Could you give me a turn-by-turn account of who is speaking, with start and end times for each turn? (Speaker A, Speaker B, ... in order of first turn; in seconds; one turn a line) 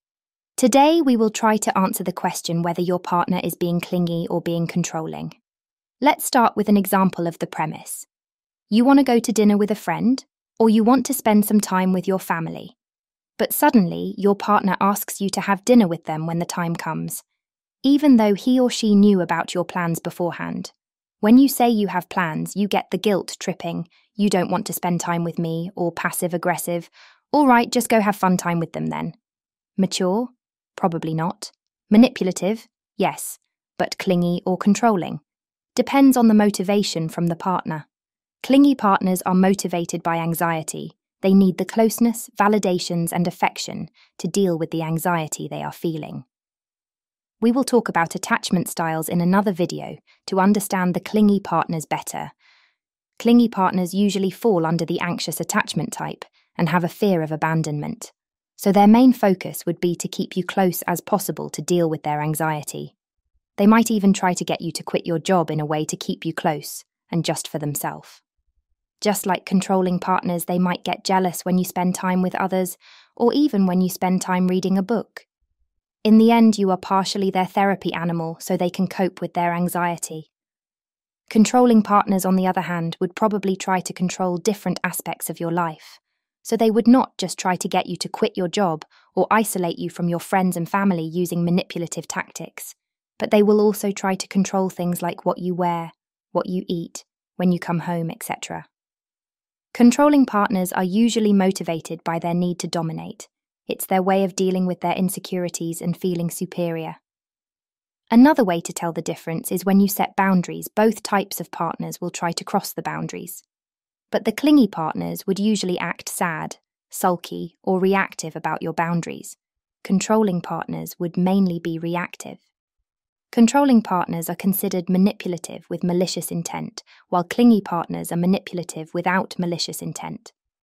Speaker A: 0.6-5.4
Speaker A: 6.0-8.1
Speaker A: 8.7-12.7
Speaker A: 13.4-17.2
Speaker A: 17.8-29.1
Speaker A: 29.8-35.2
Speaker A: 35.7-37.9
Speaker A: 38.4-46.2
Speaker A: 47.4-52.3
Speaker A: 53.2-62.9
Speaker A: 63.6-68.2
Speaker A: 69.0-75.3
Speaker A: 76.0-80.3
Speaker A: 81.3-98.7
Speaker A: 99.7-107.0
Speaker A: 108.1-113.4
Speaker A: 114.1-122.4
Speaker A: 123.3-130.3